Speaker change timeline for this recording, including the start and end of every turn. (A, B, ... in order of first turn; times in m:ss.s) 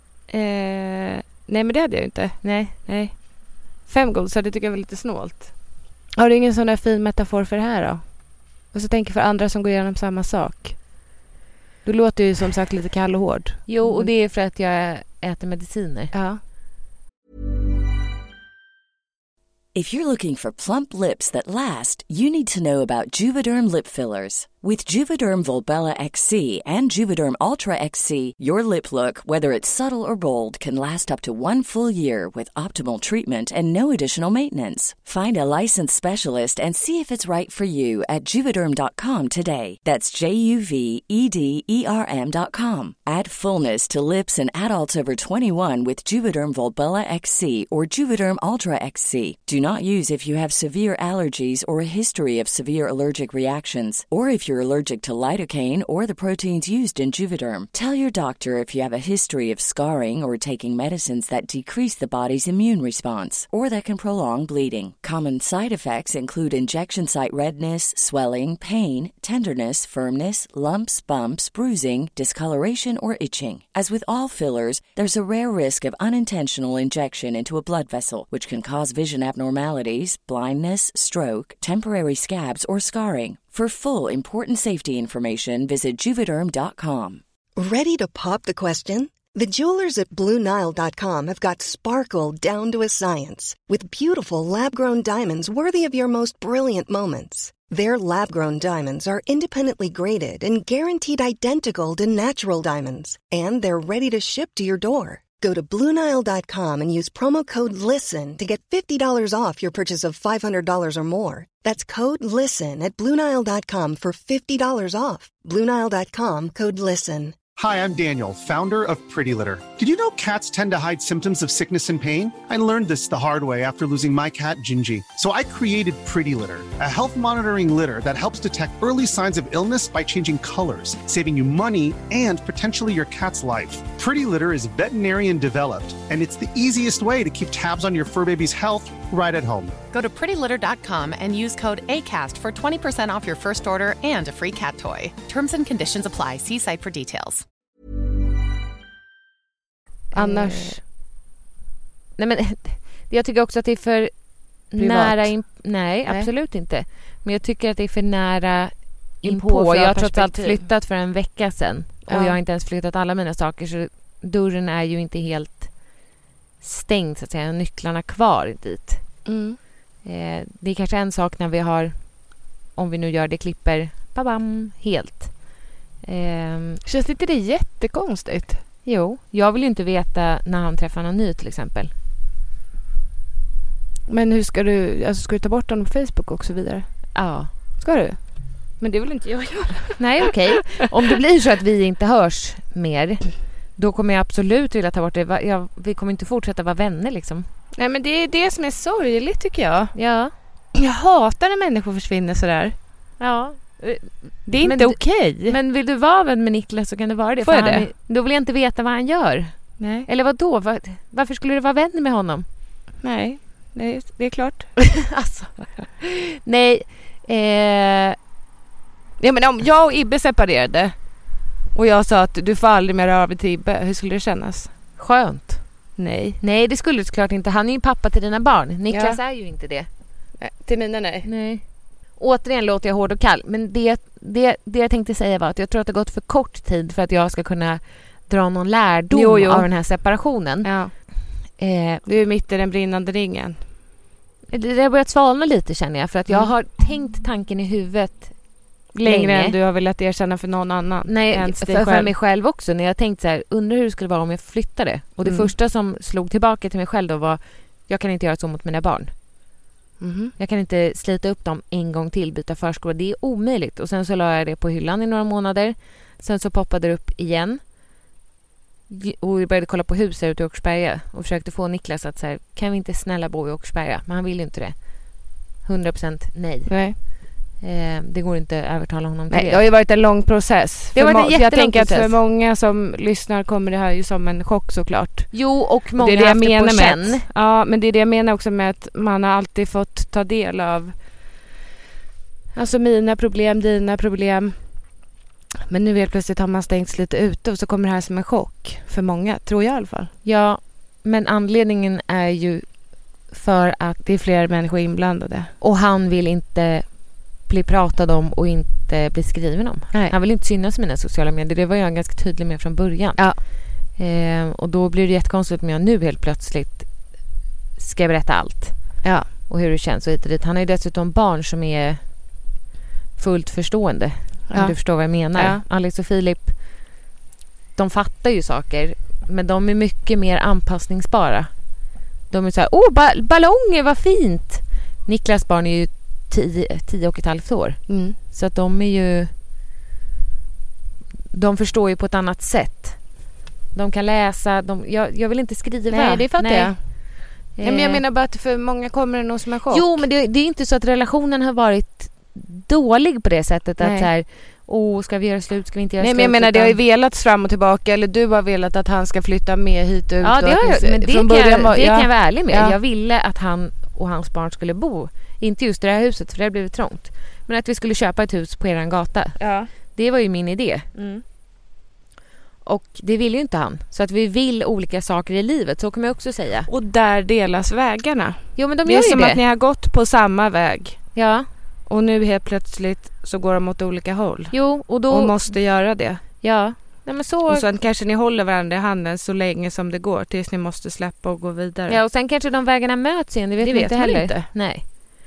0:00.3-0:03.2 A
0:02.4-0:02.8 B
0:03.8-0:05.5 A
0:06.1-0:10.8 A
0:11.8-0:14.1 A
0:13.7-0:16.1 B
0:16.1-0:16.4 A
0:19.7-1:27.2 C
1:27.6-1:57.4 D
1:57.6-2:19.7 E
2:19.9-2:27.4 F
2:30.1-2:30.8 B
2:30.1-2:30.8 A
2:32.2-2:34.1 B
2:34.7-2:45.7 B
2:34.8-2:35.3 A
2:39.2-2:40.6 A
2:42.1-2:42.4 A
2:46.6-2:49.0 B
2:49.2-2:49.6 A
2:50.0-2:51.9 B
2:52.7-2:56.8 B
2:56.8-2:58.6 A
2:58.8-3:01.9 B
3:04.1-3:06.9 A
3:07.2-3:07.5 B
3:07.8-3:08.2 A
3:08.8-3:10.3 A
3:10.0-3:17.4 B
3:17.8-3:19.9 A
3:19.9-3:20.3 B
3:20.8-3:22.7 A
3:23.2-3:32.4 B
3:24.5-3:25.6 A
3:27.4-3:27.9 A
3:29.8-3:30.1 A
3:33.0-3:34.7 A
3:34.8-3:35.5 B
3:36.0-3:38.2 B
3:39.2-3:40.9 A
3:41.7-3:44.7 A
3:45.0-3:45.6 B
3:46.0-3:46.4 A
3:46.4-3:49.9 B
3:48.9-3:49.2 A
3:50.4-3:51.3 A
3:51.2-3:51.6 B
3:52.2-4:00.7 B
3:59.1-3:59.7 A
4:00.6-4:00.9 A
4:01.6-4:02.0 B
4:02.0-4:03.6 A
4:04.5-4:08.3 B
4:08.9-4:12.1 A
4:09.0-4:09.6 B
4:11.1-4:19.1 B
4:15.2-4:15.5 A
4:20.0-4:20.3 A
4:20.4-4:27.6 B
4:28.9-4:39.6 B
4:36.7-4:36.9 A
4:39.3-4:45.4 A
4:40.9-4:42.1 B
4:45.3-4:47.2 B
4:46.0-4:50.9 A
4:52.5-4:54.6 A
4:55.7-5:00.1 A
5:00.2-5:02.6 B
5:03.3-5:04.0 B
5:04.0-5:05.5 A
5:05.6-5:06.8 B
5:07.4-5:16.9 B
5:17.8-5:22.0 B
5:23.2-5:26.6 B
5:25.3-5:25.6 A
5:27.8-5:31.5 B
5:32.3-5:39.3 B
5:37.9-5:38.1 A
5:41.3-5:43.0 B
5:43.7-5:48.0 B
5:45.9-5:46.8 A
5:47.6-5:50.0 A
5:49.7-5:56.8 B
5:53.8-5:54.1 A
5:56.0-6:02.8 A
6:00.2-6:09.4 B
6:09.4-6:09.7 A
6:10.0-6:10.8 B
6:11.0-6:11.2 A
6:12.6-6:16.7 B
6:16.7-6:21.0 A
6:18.6-6:19.4 B
6:21.1-6:21.5 B
6:21.9-6:24.6 A
6:24.5-6:25.5 B
6:25.1-6:26.2 A
6:26.4-6:27.6 B
6:27.5-6:32.0 A
6:31.9-6:34.8 B
6:33.6-6:34.4 A